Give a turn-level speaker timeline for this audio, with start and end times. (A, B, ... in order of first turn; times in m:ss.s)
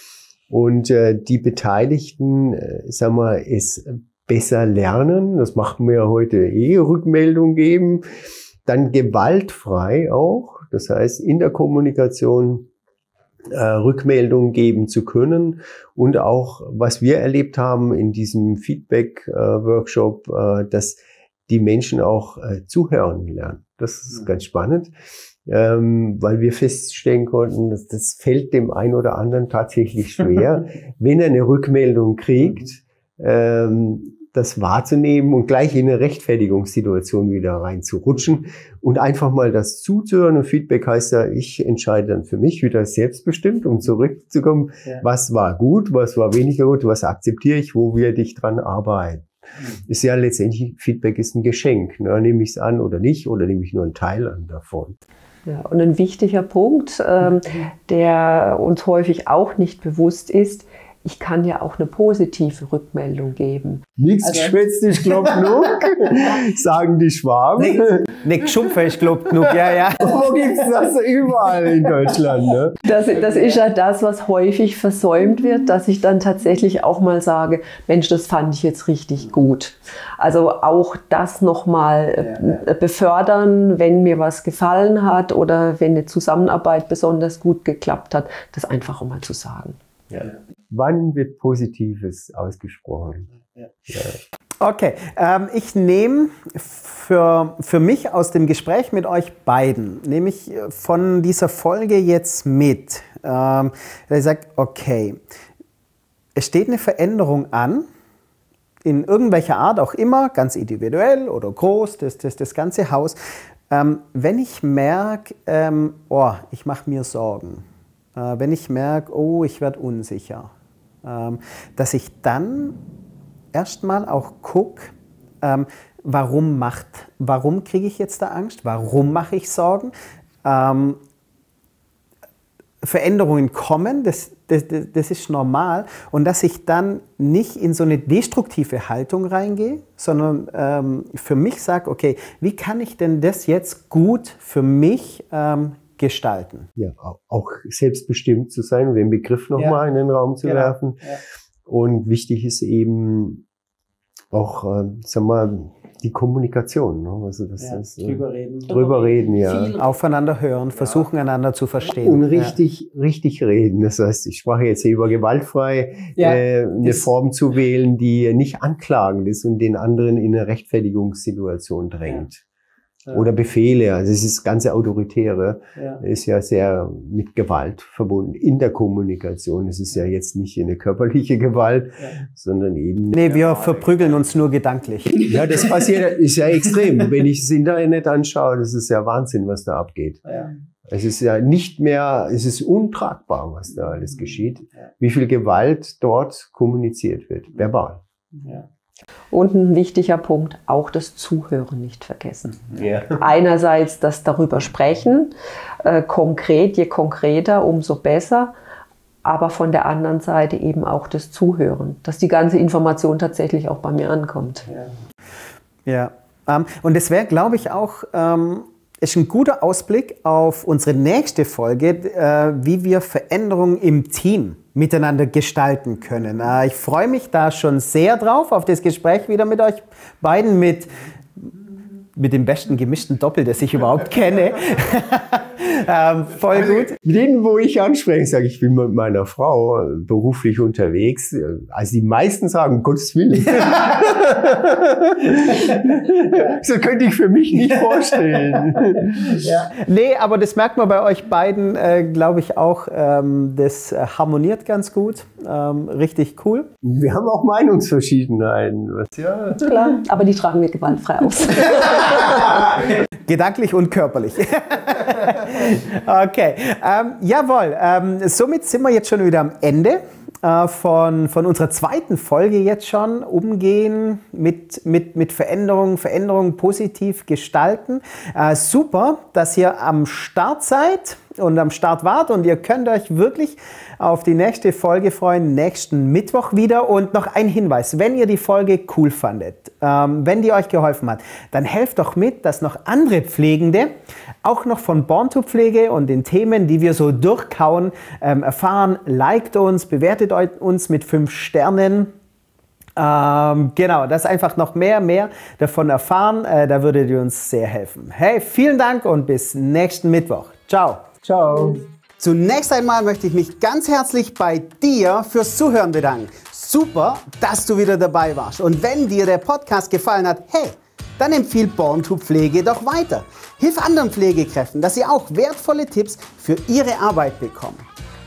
0:00.5-0:08.0 A
0:08.7-0:12.7 A
0:13.5-0:24.9 A
0:25.5-0:55.0 A
0:55.5-1:03.8 B
1:04.0-1:08.2 A
1:07.6-1:10.2 C
1:10.0-1:12.8 A
1:12.8-1:29.8 B
1:30.1-1:33.3 A
1:33.9-1:34.2 A
1:34.6-1:45.2 C
1:46.4-1:47.9 C
1:48.8-1:53.2 C
1:53.7-1:57.6 C
1:58.2-2:00.5 C
2:01.0-2:02.8 C
2:03.5-2:09.9 C
2:10.4-2:11.0 C
2:12.8-2:26.7 C
2:26.8-2:33.4 A
2:30.4-2:31.2 C
2:34.3-2:39.8 A
2:37.6-2:38.7 C
2:39.1-2:39.8 B
2:39.8-2:42.6 C
2:42.0-2:52.4 A
2:46.2-2:46.9 C
2:53.1-3:04.0 A
3:03.1-3:05.4 C
3:05.2-3:18.0 A
3:19.3-3:25.3 B
3:22.8-3:23.2 A
3:25.8-3:28.5 B
3:29.2-3:34.7 B
3:35.9-3:51.5 C
3:52.2-3:57.0 C
3:56.9-4:09.5 A
4:09.4-4:16.7 C
4:16.8-4:19.8 A
4:19.6-4:22.6 B
4:23.2-5:02.1 C
5:03.0-5:27.9 C
5:11.3-5:11.7 A